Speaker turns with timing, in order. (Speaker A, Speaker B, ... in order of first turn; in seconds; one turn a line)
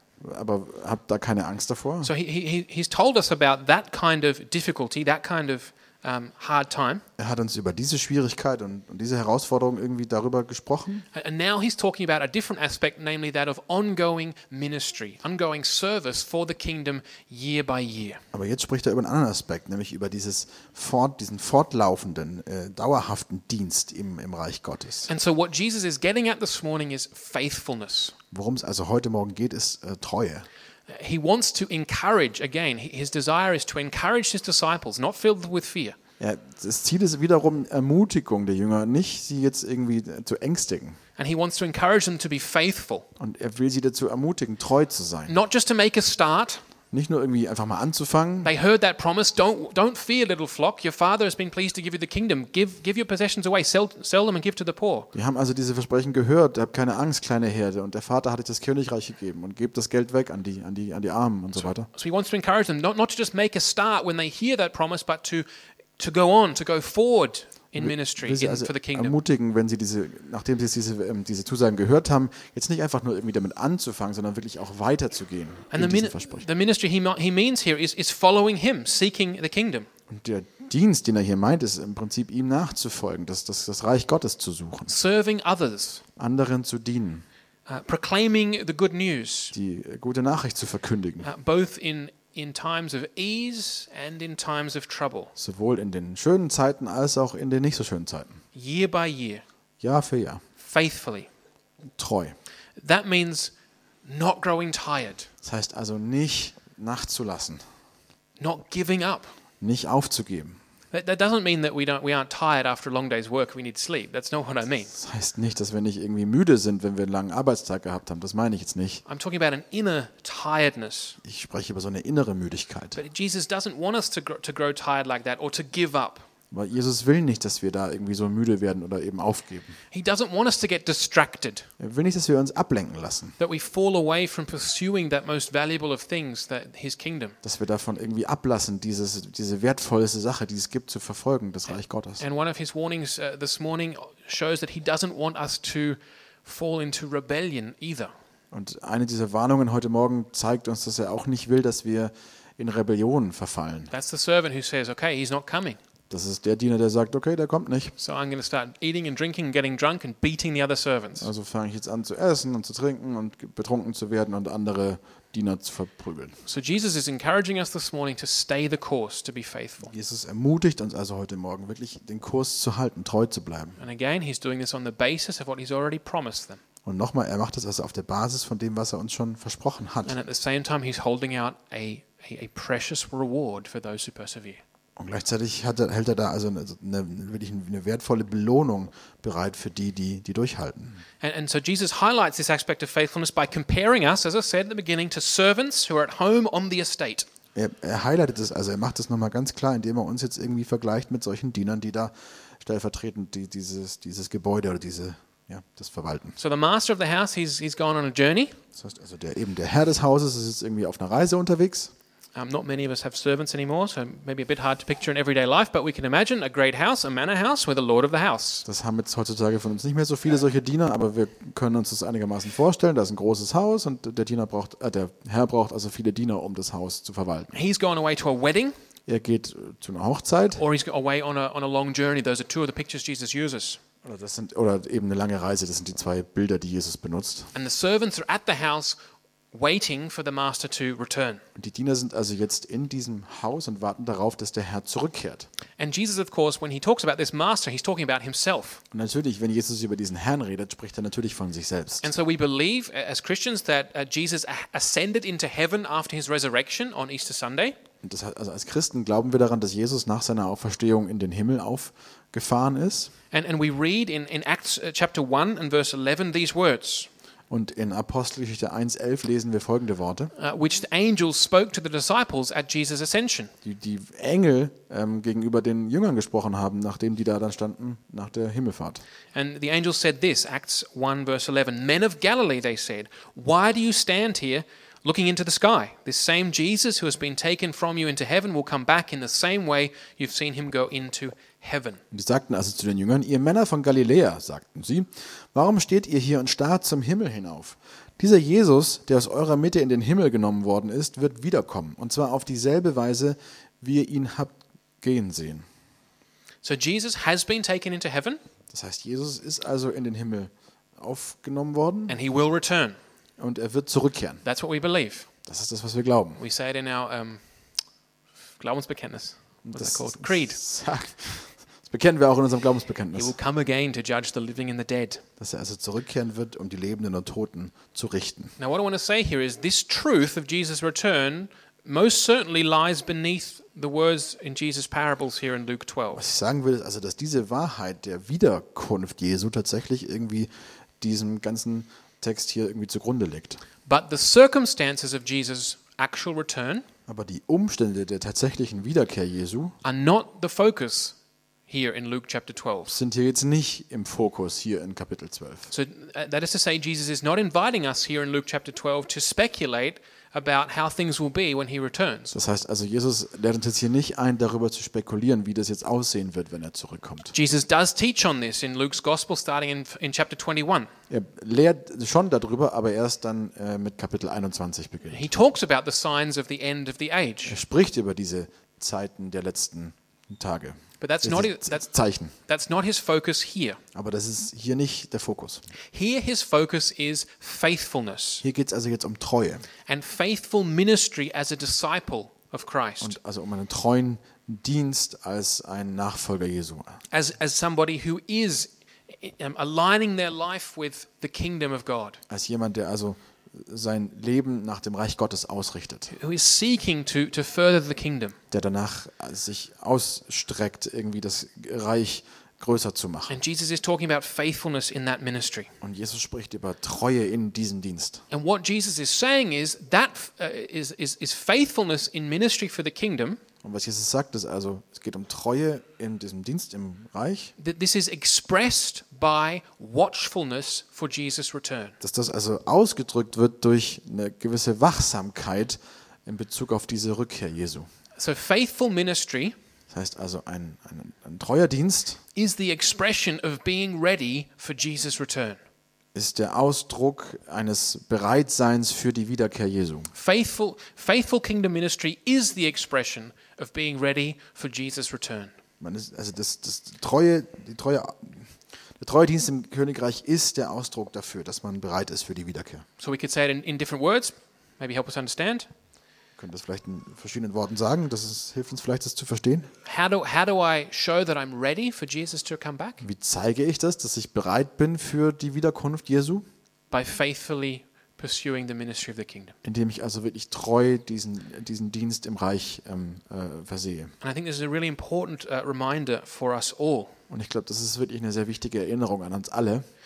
Speaker A: 0.2-2.1
Speaker B: 2.0-7.0
Speaker A: 7.2-11.0
Speaker B: 11.1-18.2
Speaker A: 18.3-25.1
Speaker B: 25.1-28.1
Speaker A: 28.3-30.5
Speaker B: 30.9-36.0
Speaker A: 36.2-41.0
Speaker B: 41.2-43.1
Speaker A: 43.2-45.3
Speaker B: 45.3-46.6
Speaker A: 46.9-48.5
Speaker B: 48.4-55.1
Speaker A: 55.1-61.9
Speaker B: 61.6-65.5
Speaker B: 66.0-69.2
Speaker A: 67.7-76.5
Speaker B: 75.7-79.9
Speaker A: 80.1-84.9
Speaker B: 84.9-86.0
Speaker A: 86.2-87.2
Speaker B: 87.7-89.5
Speaker A: 89.5-91.3
Speaker B: 91.2-95.3
Speaker A: 95.3-98.4
Speaker B: 98.5-99.4
Speaker A: 99.8-100.4
Speaker B: 100.6-101.3
Speaker A: 102.0-102.3
Speaker B: 102.8-103.5
Speaker B: 104.0-105.3
Speaker A: 105.4-107.6
Speaker B: 108.4-109.3
Speaker A: 109.6-110.6
Speaker B: 110.9-114.9
Speaker A: 114.9-119.0
Speaker B: 119.0-121.2
Speaker A: 121.2-123.0
Speaker B: 123.0-126.2
Speaker A: 126.5-129.8
Speaker B: 129.9-131.7
Speaker A: 131.8-133.4
Speaker B: 133.4-137.3
Speaker A: 137.4-142.2
Speaker B: 142.2-148.1
Speaker A: 148.5-153.9
Speaker B: 153.9-155.8
Speaker A: 156.1-157.9
Speaker B: 158.0-161.3
Speaker A: 161.2-166.3
Speaker B: 166.4-169.9
Speaker A: 169.8-173.8
Speaker B: 173.8-176.6
Speaker A: 176.8-180.2
Speaker B: 180.0-184.6
Speaker A: 185.0-191.0
Speaker B: 191.2-197.3
Speaker A: 197.5-206.3
Speaker B: 206.4-208.6
Speaker A: 208.7-211.9
Speaker B: 212.3-218.7
Speaker A: 218.7-227.5
Speaker B: 227.5-228.7
Speaker A: 229.1-230.6
Speaker B: 230.6-233.8
Speaker A: 234.0-237.5
Speaker B: 237.5-239.0
Speaker B: 239.5-241.4
Speaker A: 241.6-245.5
Speaker B: 245.8-248.8
Speaker A: 248.9-252.1
Speaker B: 252.0-257.8
Speaker A: 258.0-263.1
Speaker B: 263.3-267.1
Speaker A: 267.5-270.3
Speaker B: 270.4-273.5
Speaker A: 273.6-279.0
Speaker B: 279.3-292.0
Speaker A: 292.1-305.6
Speaker B: 306.6-308.4
Speaker A: 308.7-312.2
Speaker B: 312.1-313.0
Speaker A: 313.4-314.4
Speaker B: 314.4-315.3
Speaker A: 315.4-316.4
Speaker B: 316.4-317.4
Speaker B: 318.6-320.6
Speaker A: 319.6-323.3
Speaker B: 323.1-325.2
Speaker A: 325.4-328.5
Speaker B: 328.6-336.2
Speaker A: 336.1-340.5
Speaker A: 341.0-343.6
Speaker B: 343.9-346.8
Speaker A: 347.1-349.7
Speaker B: 349.8-351.1
Speaker B: 351.7-353.0
Speaker A: 352.9-355.7
Speaker B: 355.7-362.3
Speaker A: 362.3-367.3
Speaker B: 367.3-370.9
Speaker A: 371.1-375.3
Speaker B: 375.1-377.6
Speaker A: 377.4-382.3
Speaker B: 381.0-381.9
Speaker B: 382.5-383.8
Speaker A: 383.9-385.6
Speaker B: 385.9-388.4
Speaker A: 388.4-389.6
Speaker B: 389.9-393.1
Speaker A: 393.0-397.0
Speaker B: 397.1-402.2
Speaker A: 402.3-406.1
Speaker B: 406.1-408.4
Speaker A: 408.5-413.3
Speaker B: 413.3-415.7
Speaker A: 415.8-418.2
Speaker B: 418.3-423.4
Speaker A: 423.6-427.5
Speaker B: 427.6-431.9
Speaker A: 432.0-437.9
Speaker B: 438.2-439.6
Speaker A: 439.9-442.2
Speaker B: 442.3-445.6
Speaker A: 446.1-450.1
Speaker B: 450.1-455.5
Speaker A: 455.8-462.8
Speaker B: 463.0-465.7
Speaker A: 466.4-469.7
Speaker B: 469.8-473.0
Speaker A: 473.0-476.4
Speaker B: 476.9-479.5
Speaker A: 479.6-484.1
Speaker B: 484.2-487.1
Speaker A: 487.3-489.8